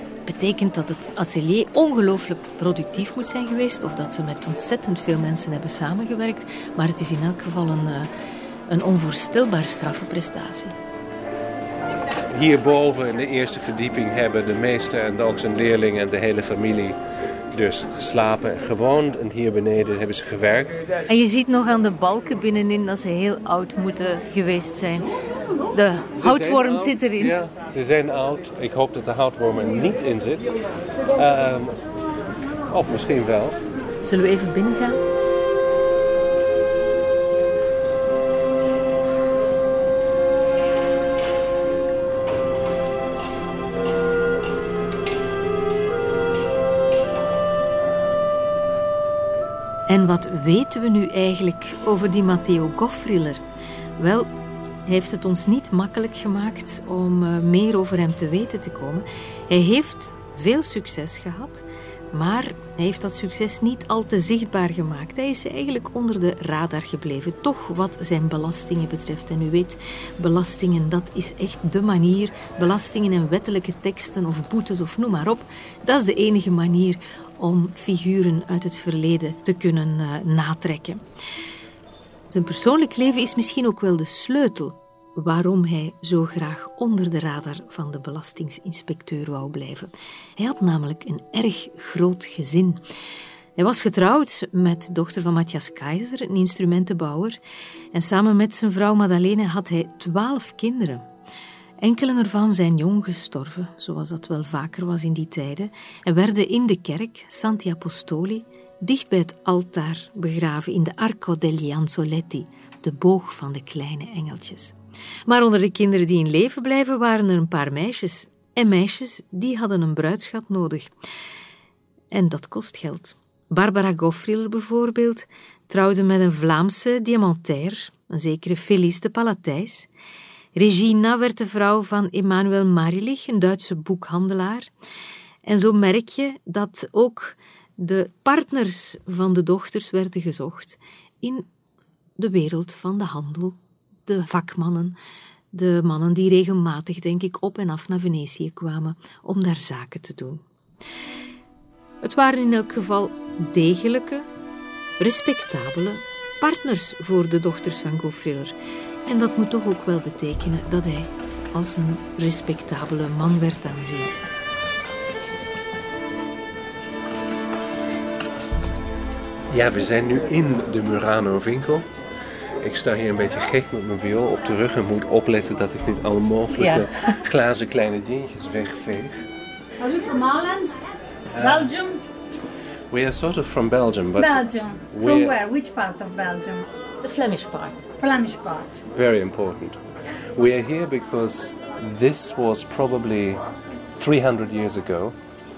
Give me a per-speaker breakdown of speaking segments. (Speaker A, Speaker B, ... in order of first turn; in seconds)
Speaker A: 0.2-8.1, 8.7-10.8, 21.1-25.1, 25.7-27.4, 34.0-35.0, 49.9-53.4, 54.0-54.3, 54.9-81.0, 82.3-92.8, 93.5-97.4, 97.9-101.0, 101.8-114.7, 115.3-120.9, 122.1-129.9, 130.5-134.7, 135.4-141.5, 142.2-144.9, 145.5-150.4, 152.0-154.3, 155.0-158.5, 159.1-164.1, 176.6-177.2, 187.0-187.8
Speaker B: 12.3-17.0, 17.5-20.8, 26.2-30.5, 31.1-31.8, 32.7-33.6, 169.5-171.9, 172.6-179.2, 181.3-181.7, 182.9-185.4, 188.9-189.8, 190.3-193.4, 194.0-195.2
Speaker C: 179.8-180.8, 181.3-182.0, 184.2-186.7, 188.0-188.8